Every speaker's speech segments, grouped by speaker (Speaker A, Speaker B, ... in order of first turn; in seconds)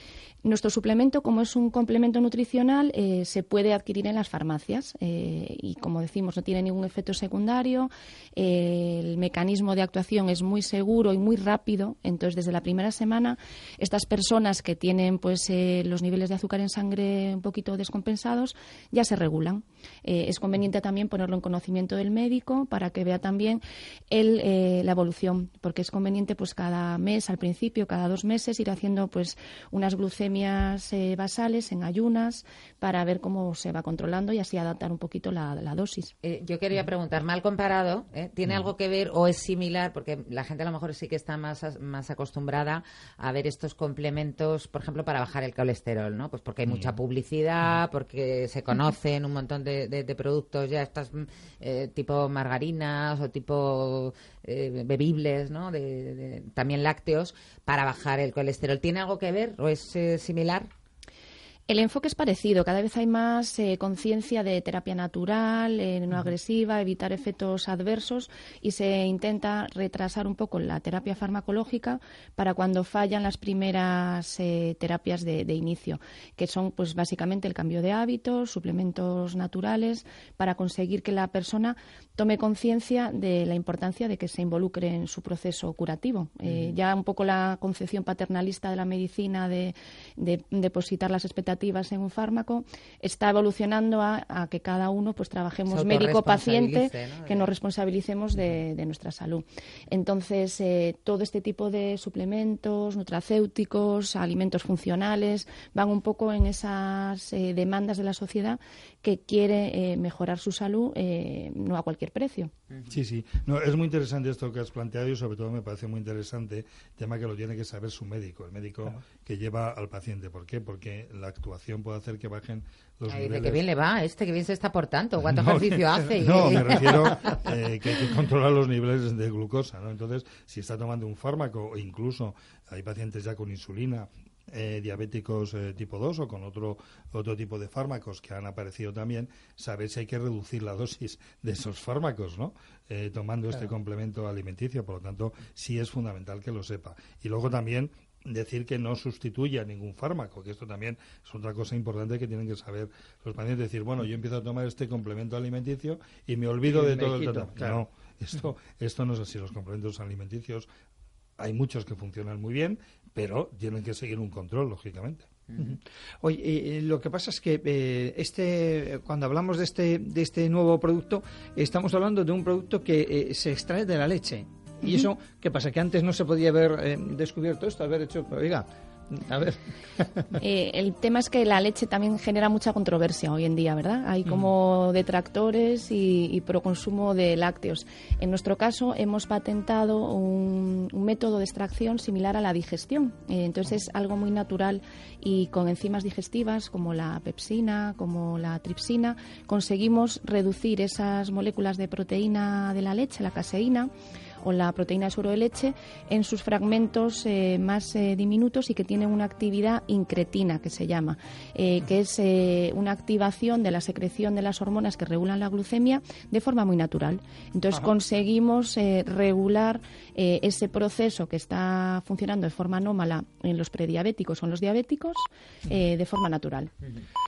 Speaker A: 0.4-36.1, 61.7-112.5, 180.4-203.9, 204.4-226.7
Speaker B: 36.2-60.7, 95.7-97.5, 123.1-127.5
Speaker C: 112.9-123.6, 125.2-160.7, 161.4-165.3
Speaker D: 156.7-157.8, 165.6-180.2